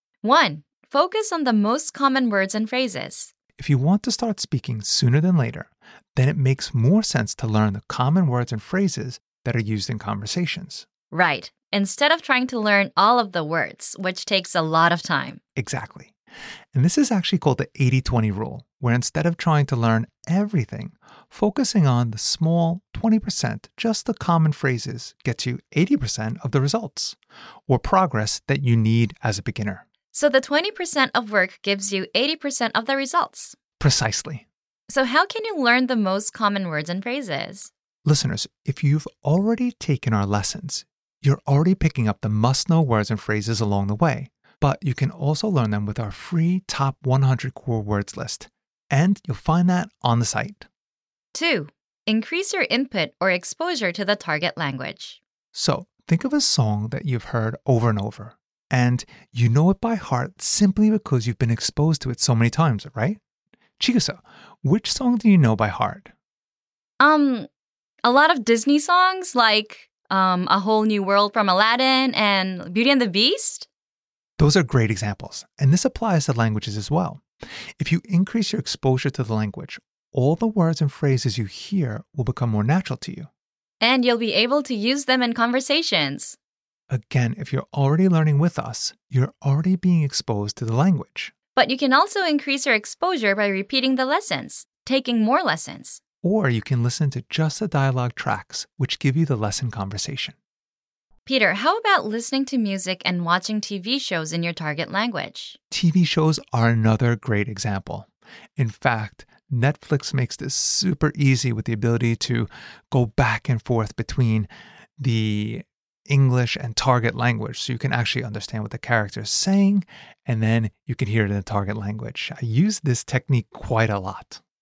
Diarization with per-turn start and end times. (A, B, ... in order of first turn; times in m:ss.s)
0:00.2-0:03.3 A
0:03.6-0:10.9 B
0:11.1-0:15.4 A
0:15.6-0:16.1 B
0:16.7-0:29.8 B
0:30.1-0:33.6 A
0:33.8-0:34.4 B
0:34.9-0:37.7 A
0:38.0-0:50.7 B
0:51.3-0:55.2 A
0:55.5-1:03.2 B
1:03.8-1:06.1 B
1:07.0-1:07.5 A
1:08.0-1:13.7 A
1:14.4-1:17.2 B
1:17.8-1:23.3 B
1:23.8-1:26.4 A
1:26.9-1:31.3 B
1:31.6-1:36.0 A
1:36.2-1:40.4 B
1:41.3-1:45.6 A
1:45.7-1:54.5 B
1:55.0-2:04.4 B